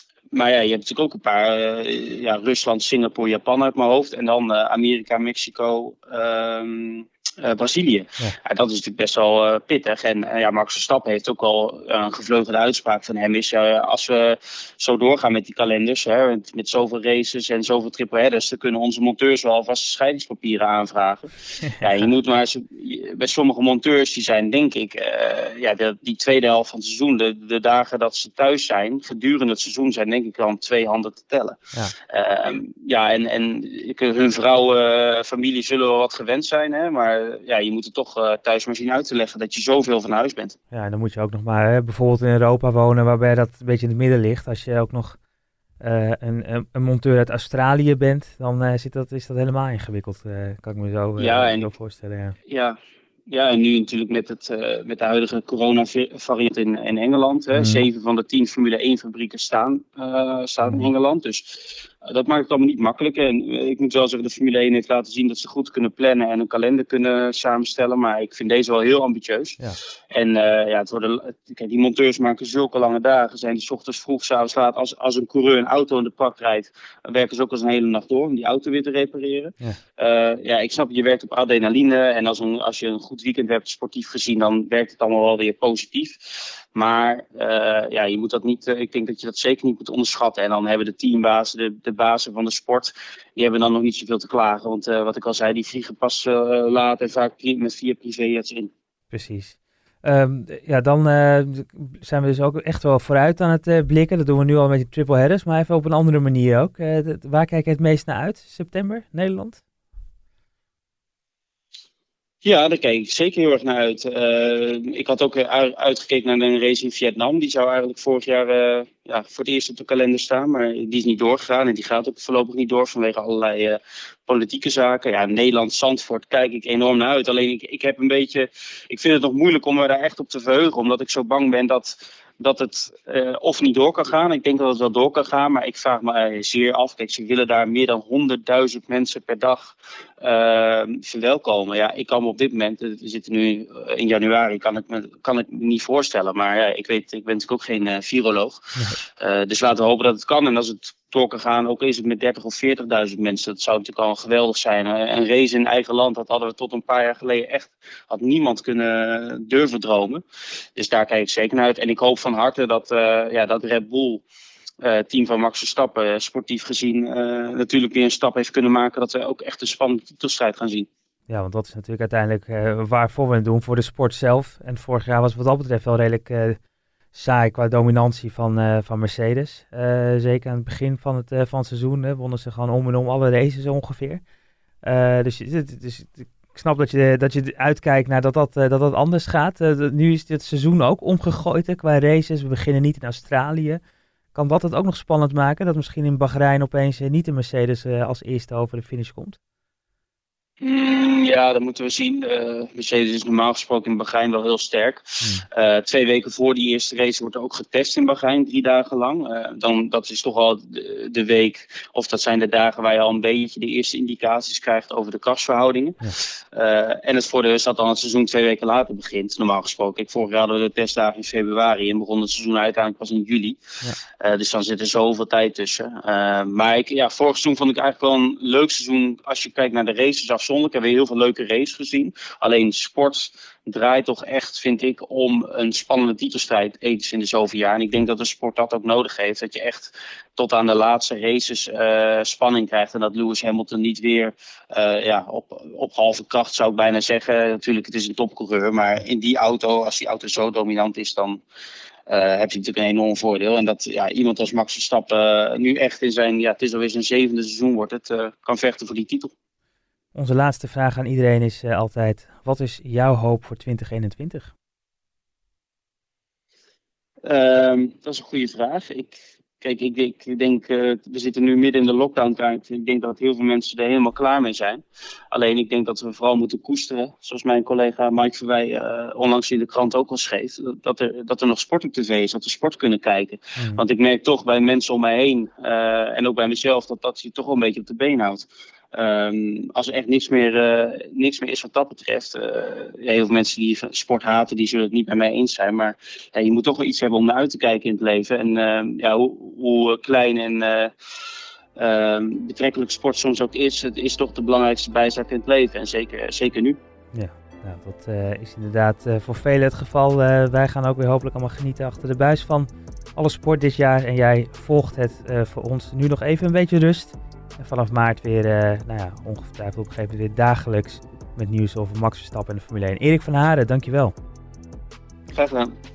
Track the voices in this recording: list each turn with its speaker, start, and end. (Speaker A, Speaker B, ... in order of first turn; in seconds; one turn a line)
Speaker A: 0.3-31.6
Speaker A: 32.1-40.6
Speaker B: 40.7-45.2
Speaker B: 45.8-52.4
Speaker A: 51.2-51.7
Speaker A: 52.5-52.8
Speaker A: 53.3-69.6
Speaker B: 57.5-57.8
Speaker B: 60.6-60.9
Speaker A: 70.1-98.7
Speaker B: 99.1-109.6
Speaker A: 112.4-148.6
Speaker A: 149.2-160.2
Speaker A: 160.8-164.2
Speaker A: 164.8-170.9
Speaker B: 171.3-176.6
Speaker B: 177.1-184.2
Speaker B: 184.8-193.8
Speaker B: 194.3-199.4
Speaker A: 200.6-223.6
Speaker A: 224.2-251.4
Speaker A: 252.1-259.3
Speaker B: 260.1-264.5
Speaker A: 267.2-300.9
Speaker A: 301.8-306.8
Speaker B: 307.1-324.1
Speaker A: 325.3-325.7